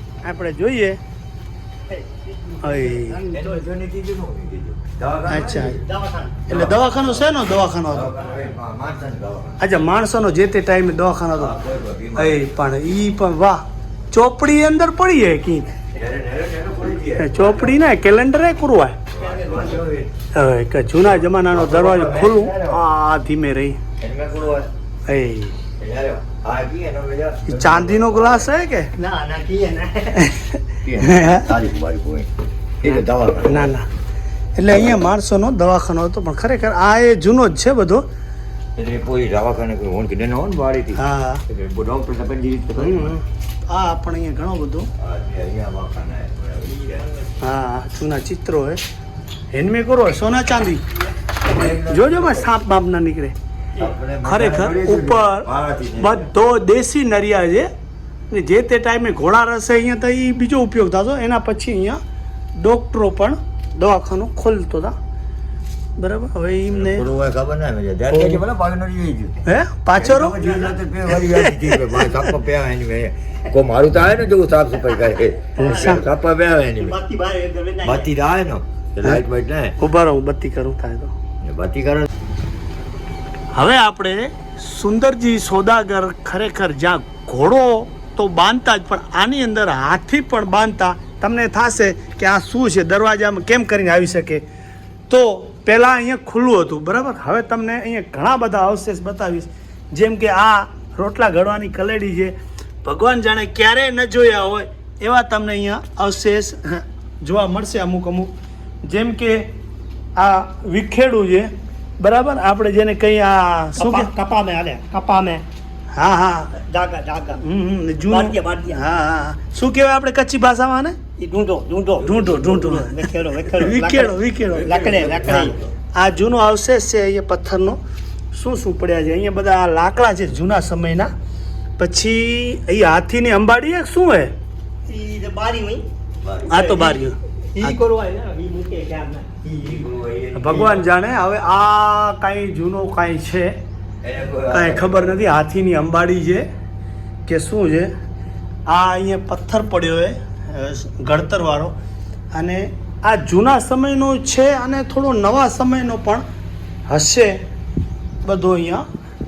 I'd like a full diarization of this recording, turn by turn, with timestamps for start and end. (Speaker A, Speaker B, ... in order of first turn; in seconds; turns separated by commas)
Speaker A: 0.2-1.0, Speaker B: 1.9-3.6, Speaker A: 2.6-3.2, Speaker C: 3.3-5.8, Speaker A: 5.3-5.8, Speaker B: 5.8-6.4, Speaker A: 6.5-8.1, Speaker C: 6.5-7.3, Speaker C: 7.9-9.7, Speaker A: 9.6-11.6, Speaker C: 11.4-12.5, Speaker A: 12.2-15.7, Speaker C: 15.9-17.8, Speaker A: 17.2-19.0, Speaker C: 19.1-20.1, Speaker B: 19.2-19.9, Speaker A: 20.3-23.8, Speaker C: 21.0-22.8, Speaker C: 24.0-24.7, Speaker A: 25.1-25.6, Speaker C: 25.8-28.5, Speaker A: 27.5-28.9, Speaker B: 29.0-30.3, Speaker A: 30.2-31.5, Speaker C: 30.8-32.3, Speaker C: 32.8-33.7, Speaker A: 32.8-33.9, Speaker A: 34.6-38.1, Speaker C: 38.8-43.2, Speaker A: 41.0-41.4, Speaker A: 42.8-44.9, Speaker C: 45.0-47.1, Speaker A: 47.4-48.8, Speaker A: 49.5-50.8, Speaker C: 51.5-52.5, Speaker A: 51.6-53.4, Speaker C: 53.8-56.3, Speaker A: 54.2-57.7, Speaker A: 58.3-62.0, Speaker A: 62.6-65.0, Speaker A: 66.0-67.1, Speaker C: 66.7-69.4, Speaker A: 68.1-68.4, Speaker A: 69.5-70.5, Speaker C: 70.0-77.0, Speaker A: 71.1-72.3, Speaker B: 74.9-76.1, Speaker A: 75.6-76.0, Speaker B: 76.8-78.1, Speaker C: 77.8-79.8, Speaker A: 79.8-81.1, Speaker C: 81.4-82.1, Speaker A: 83.5-94.4, Speaker A: 95.1-108.3, Speaker A: 108.8-109.5, Speaker A: 110.2-114.1, Speaker B: 113.8-115.4, Speaker A: 116.0-116.6, Speaker B: 116.6-117.4, Speaker A: 117.4-121.0, Speaker B: 118.1-118.8, Speaker B: 121.2-125.6, Speaker A: 122.0-123.0, Speaker A: 123.5-127.8, Speaker C: 124.6-125.7, Speaker A: 128.3-131.1, Speaker A: 131.8-134.3, Speaker B: 134.9-135.8, Speaker C: 136.2-136.6, Speaker B: 136.5-139.9, Speaker A: 136.5-137.8, Speaker C: 139.6-140.9, Speaker A: 140.3-143.6, Speaker C: 144.0-145.2, Speaker A: 144.5-146.5, Speaker A: 147.3-147.9, Speaker A: 148.7-151.8, Speaker A: 152.3-156.2, Speaker A: 156.9-157.4, Speaker A: 158.2-158.8